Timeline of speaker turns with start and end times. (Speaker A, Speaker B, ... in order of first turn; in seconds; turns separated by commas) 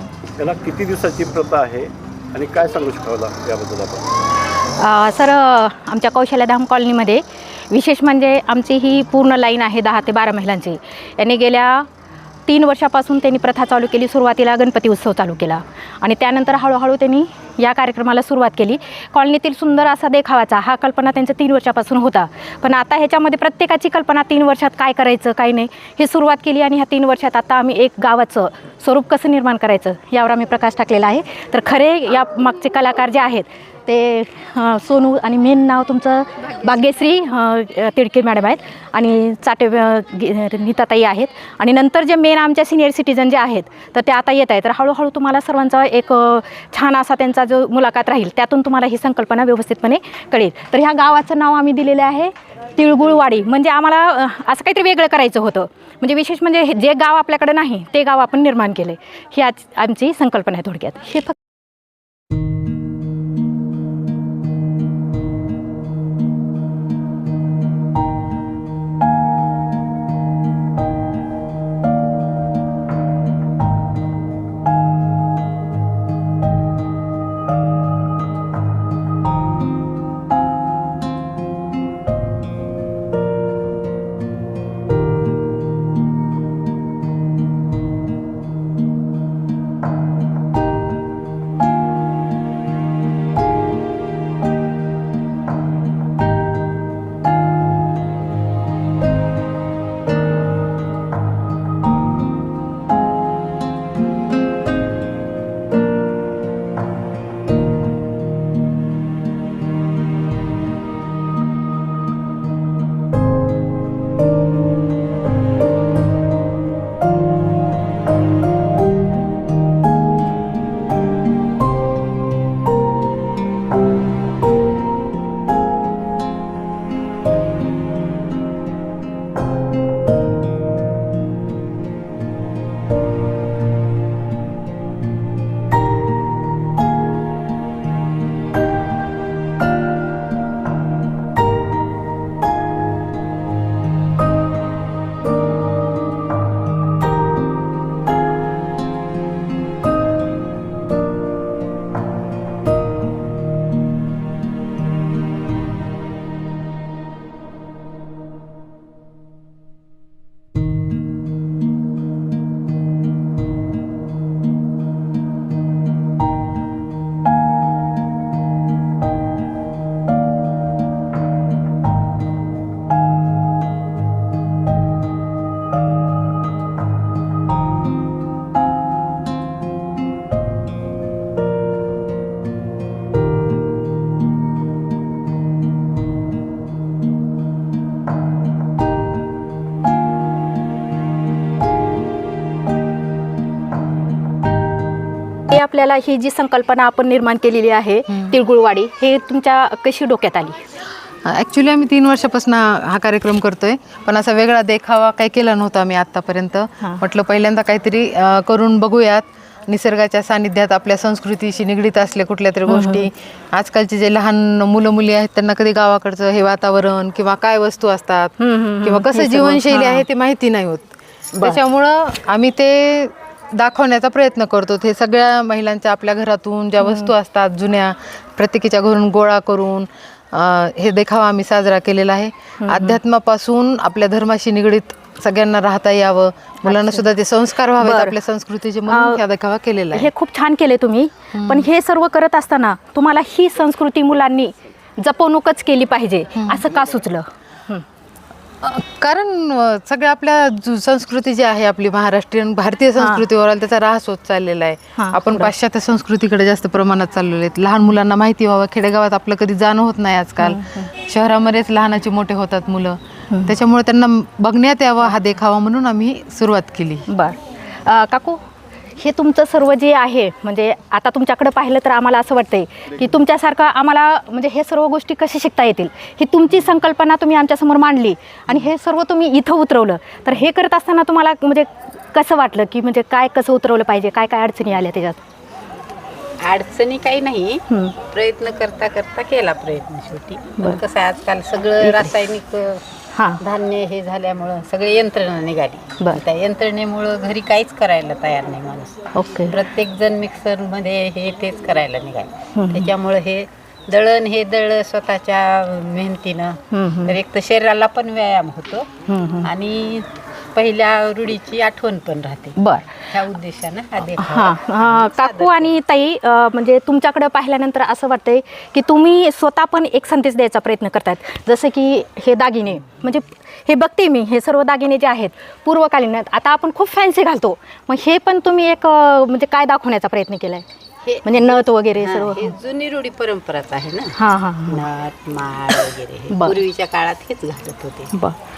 Speaker A: 0.4-4.1, Speaker B: 4.8-11.9, Speaker B: 12.5-61.4, Speaker B: 195.5-200.6, Speaker C: 198.1-198.3, Speaker C: 201.3-240.1, Speaker B: 212.7-213.1, Speaker B: 218.4-220.0, Speaker B: 221.3-221.6, Speaker B: 226.8-227.1, Speaker B: 232.6-233.0, Speaker B: 236.7-237.0, Speaker B: 237.8-238.2, Speaker B: 238.9-239.2, Speaker B: 239.9-247.8, Speaker C: 241.3-241.7, Speaker C: 246.4-246.7, Speaker C: 248.6-267.1, Speaker B: 253.0-253.2, Speaker B: 255.0-255.5, Speaker B: 260.4-260.9, Speaker B: 267.1-268.4, Speaker B: 269.0-285.2, Speaker D: 286.4-292.8, Speaker B: 291.8-292.1, Speaker B: 293.1-293.4, Speaker D: 293.4-298.9, Speaker B: 299.1-299.6, Speaker D: 299.5-308.9, Speaker B: 302.6-302.9, Speaker B: 306.7-307.1, Speaker B: 309.1-309.5, Speaker D: 309.4-312.6, Speaker B: 312.6-313.0, Speaker D: 313.1-315.7, Speaker B: 314.2-330.6, Speaker D: 331.1-334.1, Speaker B: 331.2-332.5, Speaker B: 334.1-334.8, Speaker D: 334.7-338.1, Speaker B: 336.3-336.6